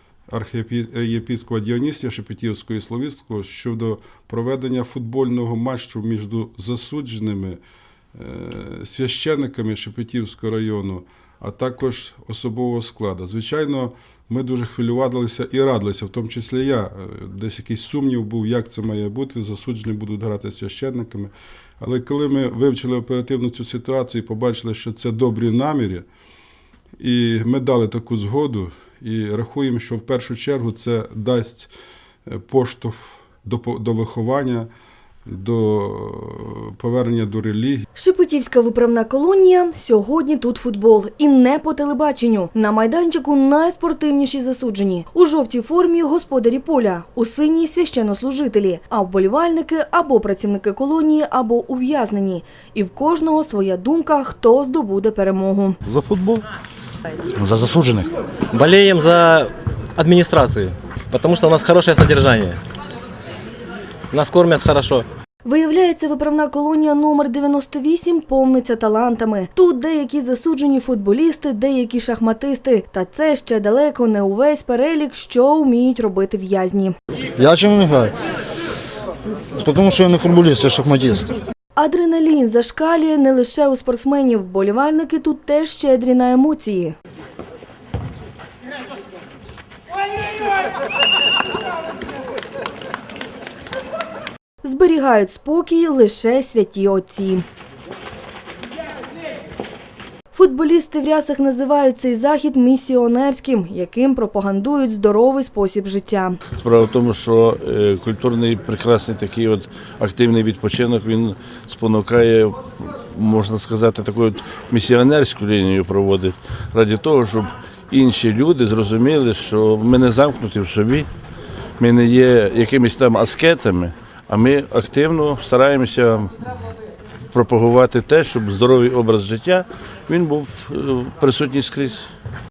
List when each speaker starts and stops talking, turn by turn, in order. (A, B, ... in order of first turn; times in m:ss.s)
0:00.3-0:07.6 A
0:08.2-0:26.1 A
0:27.0-0:31.7 A
0:32.3-0:34.7 A
0:35.3-0:37.9 A
0:38.0-0:55.8 B
0:55.9-0:56.4 C
0:57.4-0:58.0 C
0:58.5-1:02.6 D
1:04.1-1:05.1 D
1:05.4-1:17.0 B
1:17.4-1:18.1 E
1:19.6-1:21.4 E
1:21.8-1:27.0 B
1:34.6-1:37.4 B
1:40.3-1:46.4 B
1:46.6-2:01.1 C
2:01.8-2:06.4 C
2:07.3-2:12.1 C